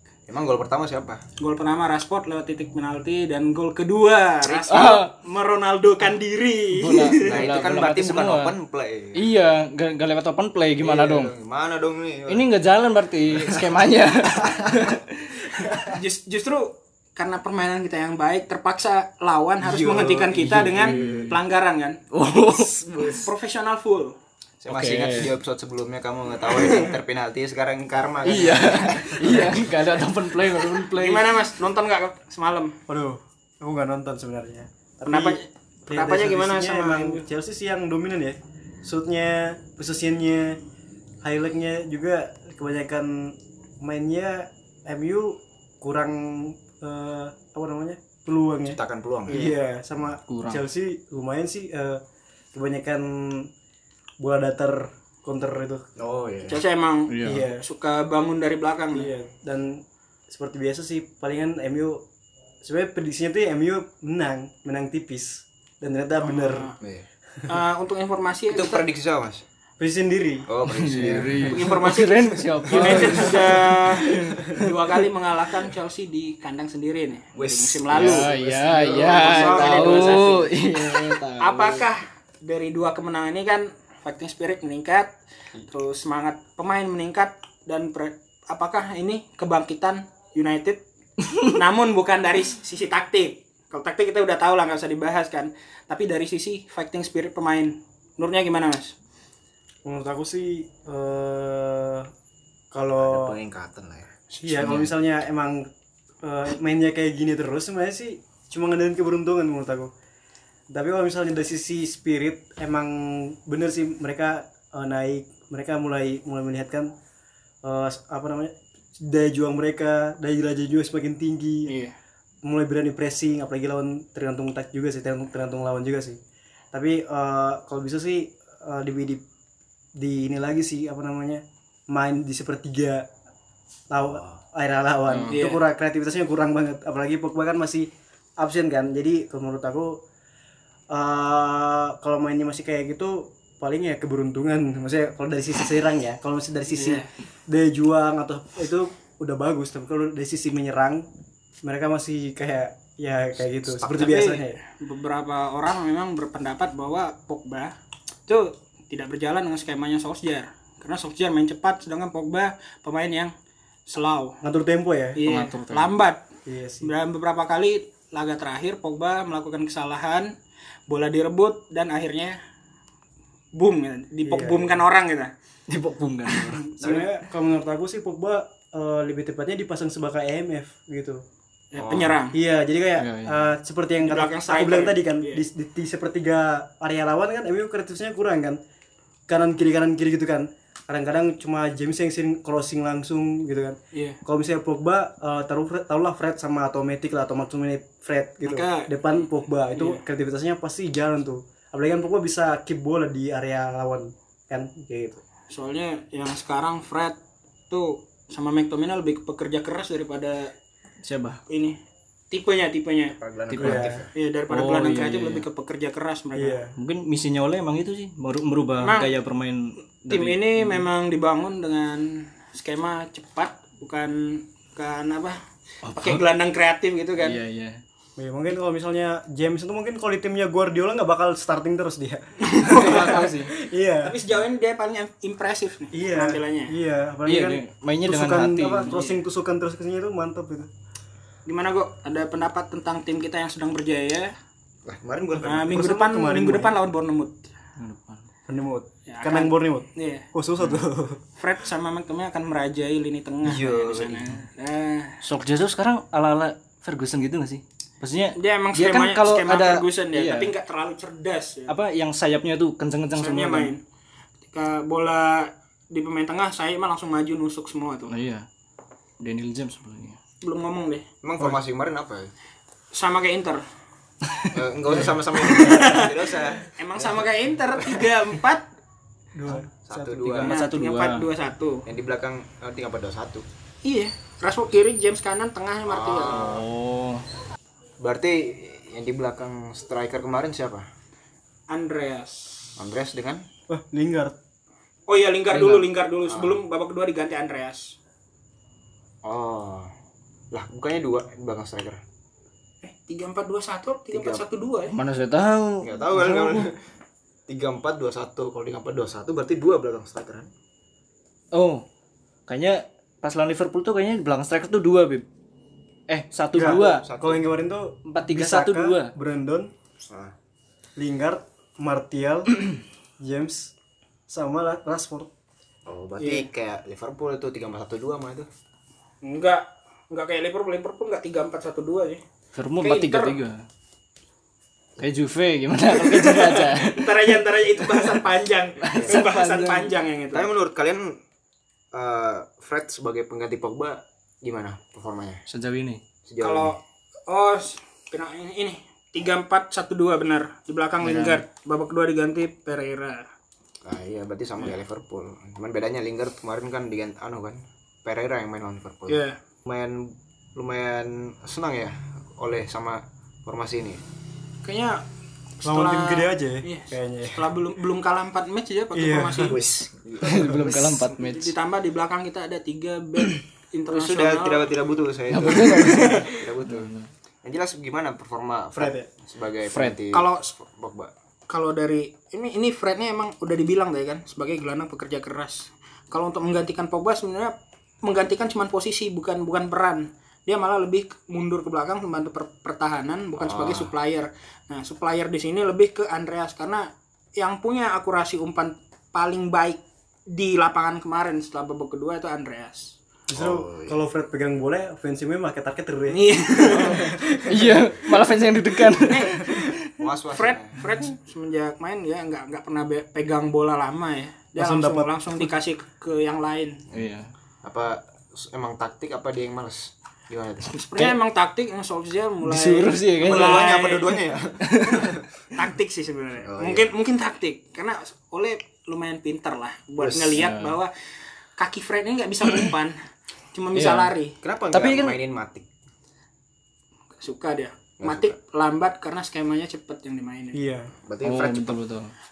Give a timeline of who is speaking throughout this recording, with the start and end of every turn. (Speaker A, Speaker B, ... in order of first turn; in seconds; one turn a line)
Speaker A: 0.3-1.2
Speaker B: 1.4-7.4
Speaker A: 4.4-4.9
Speaker C: 4.7-5.1
Speaker C: 6.8-8.5
Speaker A: 7.2-9.3
Speaker C: 9.1-11.3
Speaker A: 10.8-12.4
Speaker C: 12.3-15.7
Speaker A: 13.3-13.7
Speaker A: 14.4-15.0
Speaker B: 15.9-22.0
Speaker A: 19.6-21.4
Speaker C: 20.4-21.4
Speaker C: 22.1-22.8
Speaker A: 22.7-23.2
Speaker B: 22.9-24.1
Speaker A: 24.6-29.6
Speaker C: 24.6-25.4
Speaker B: 26.6-26.9
Speaker C: 28.2-31.3
Speaker B: 30.9-32.8
Speaker D: 32.9-40.6
Speaker B: 35.0-37.2
Speaker D: 41.2-52.0
Speaker A: 48.7-49.5
Speaker C: 50.3-50.7
Speaker D: 52.5-53.5
Speaker D: 54.2-55.9
Speaker A: 56.0-56.6
Speaker B: 56.4-59.1
Speaker C: 57.1-57.5
Speaker D: 57.2-57.6
Speaker D: 58.9-62.0
Speaker D: 62.6-66.7
Speaker B: 66.2-66.8
Speaker A: 66.8-67.1
Speaker B: 67.5-68.9
Speaker A: 68.5-69.4
Speaker D: 69.8-70.5
Speaker A: 70.5-71.8
Speaker C: 70.7-74.6
Speaker B: 71.4-78.3
Speaker A: 77.3-80.5
Speaker C: 77.9-81.8
Speaker B: 79.1-80.4
Speaker B: 81.4-85.1
Speaker B: 85.7-90.8
Speaker B: 91.4-98.9
Speaker D: 99.8-102.1
Speaker D: 102.7-103.3
Speaker A: 103.0-104.1
Speaker D: 104.3-105.7
Speaker C: 104.5-104.9
Speaker D: 106.2-109.9
Speaker D: 110.7-116.9
Speaker D: 117.6-121.7
Speaker B: 121.7-121.9
Speaker D: 122.4-126.2
Speaker D: 126.7-129.2
Speaker D: 129.9-133.1
Speaker D: 133.9-140.0
Speaker C: 135.1-135.4
Speaker B: 135.3-135.6
Speaker D: 140.9-151.1
Speaker B: 146.8-147.0
Speaker D: 151.6-154.6
Speaker A: 153.6-154.2
Speaker B: 153.9-157.7
Speaker B: 158.3-163.3
Speaker B: 163.9-164.4
Speaker D: 164.4-165.2
Speaker B: 165.1-166.2
Speaker C: 165.2-165.9
Speaker D: 166.4-166.9
Speaker B: 166.8-170.3
Speaker B: 170.9-172.4
Speaker B: 173.6-175.3
Speaker D: 174.2-174.8
Speaker C: 175.7-176.7
Speaker D: 176.6-181.2
Speaker A: 176.8-177.1
Speaker B: 181.7-182.4
Speaker C: 181.8-182.1
Speaker D: 182.3-188.6
Speaker C: 183.0-183.5
Speaker B: 184.0-185.4
Speaker D: 189.3-205.2
Speaker B: 198.4-198.9
Speaker B: 199.7-200.0
Speaker B: 205.5-207.2
Speaker B: 207.7-210.5
Speaker C: 211.0-211.4
Speaker B: 211.5-211.8
Speaker B: 212.3-213.2
Speaker A: 213.2-214.1
Speaker C: 213.5-213.9
Speaker D: 213.6-214.1
Speaker B: 214.1-216.6
Speaker C: 214.5-215.4
Speaker D: 216.3-216.7
Speaker C: 216.8-220.8
Speaker B: 218.8-219.1
Speaker B: 220.1-225.4
Speaker C: 225.8-226.2
Speaker B: 225.9-227.4
Speaker C: 227.2-227.8
Speaker D: 228.2-234.1
Speaker B: 232.5-233.3
Speaker C: 232.6-233.5
Speaker B: 234.0-236.7
Speaker D: 235.9-240.7
Speaker C: 237.2-238.9
Speaker B: 238.9-239.2
Speaker B: 241.4-244.3
Speaker A: 244.8-245.8
Speaker B: 245.4-247.5
Speaker D: 245.7-246.7
Speaker C: 247.8-248.2
Speaker D: 248.5-251.2
Speaker B: 249.1-250.3
Speaker C: 250.6-250.8
Speaker B: 251.4-255.2
Speaker A: 253.4-254.3
Speaker C: 255.2-260.5
Speaker B: 258.3-261.7
Speaker C: 261.7-263.7
Speaker B: 263.1-263.8
Speaker B: 264.5-268.1
Speaker C: 268.1-268.4
Speaker C: 269.2-270.2
Speaker B: 270.4-271.0
Speaker A: 271.2-272.3
Speaker B: 272.9-273.6
Speaker A: 274.5-277.3
Speaker B: 275.4-276.1
Speaker B: 276.7-278.7
Speaker D: 279.3-280.5
Speaker A: 279.6-280.5
Speaker C: 280.4-281.3
Speaker B: 280.4-281.8
Speaker A: 281.9-283.4
Speaker B: 283.8-286.6
Speaker A: 285.9-286.6
Speaker C: 286.3-287.2
Speaker A: 288.0-290.9
Speaker B: 291.7-292.7
Speaker A: 292.8-293.4
Speaker D: 293.7-294.4
Speaker B: 295.1-298.0
Speaker C: 295.5-295.9
Speaker A: 296.3-296.6
Speaker A: 299.2-299.9
Speaker A: 300.5-302.0
Speaker B: 302.8-304.9
Speaker A: 304.1-304.4
Speaker C: 304.9-306.7
Speaker A: 305.8-306.7
Speaker A: 307.5-310.5
Speaker C: 311.5-311.8
Speaker C: 312.5-315.2
Speaker C: 316.1-317.0
Speaker D: 316.5-319.7
Speaker A: 316.5-317.4
Speaker C: 318.1-319.1
Speaker A: 320.0-320.3
Speaker D: 320.9-322.6
Speaker D: 323.2-323.7
Speaker D: 324.3-325.3
Speaker A: 325.9-328.5
Speaker B: 326.2-326.5
Speaker B: 329.2-332.2
Speaker C: 332.5-333.6
Speaker B: 332.8-333.4
Speaker C: 335.0-338.2
Speaker B: 336.3-340.5
Speaker C: 338.9-339.9
Speaker A: 338.9-339.2
Speaker A: 340.3-341.2
Speaker A: 341.9-345.4
Speaker C: 345.5-346.0
Speaker A: 346.2-346.7
Speaker B: 346.4-353.2
Speaker C: 351.0-351.4
Speaker A: 353.8-364.0
Speaker B: 359.1-359.4
Speaker B: 364.6-365.0
Speaker B: 365.6-369.6
Speaker D: 365.6-367.5
Speaker D: 368.9-369.6
Speaker A: 369.4-370.8
Speaker C: 370.2-371.5
Speaker B: 371.1-374.7
Speaker A: 373.9-376.9
Speaker C: 375.3-377.1
Speaker B: 375.7-376.4
Speaker A: 377.4-381.1
Speaker D: 378.7-379.1
Speaker C: 379.7-380.0
Speaker B: 380.1-380.5
Speaker B: 381.5-402.9
Speaker A: 393.4-393.9
Speaker D: 403.3-407.8
Speaker A: 403.3-404.0
Speaker B: 406.1-407.0
Speaker C: 406.7-409.9
Speaker B: 409.0-409.4
Speaker A: 410.0-410.8
Speaker B: 410.3-416.8
Speaker D: 414.6-415.2
Speaker C: 416.9-417.3
Speaker A: 417.6-420.8
Speaker B: 420.7-424.1
Speaker C: 422.4-423.7
Speaker A: 423.2-425.2
Speaker C: 424.6-425.1
Speaker B: 425.5-430.9
Speaker A: 426.4-426.9
Speaker A: 430.0-430.4
Speaker C: 430.3-430.8
Speaker B: 431.6-433.0
Speaker B: 433.5-434.4
Speaker C: 433.7-434.1
Speaker A: 434.4-435.6
Speaker C: 434.7-435.2
Speaker B: 437.2-440.6
Speaker A: 438.0-438.3
Speaker D: 440.5-440.9
Speaker A: 441.1-441.8
Speaker C: 441.2-442.1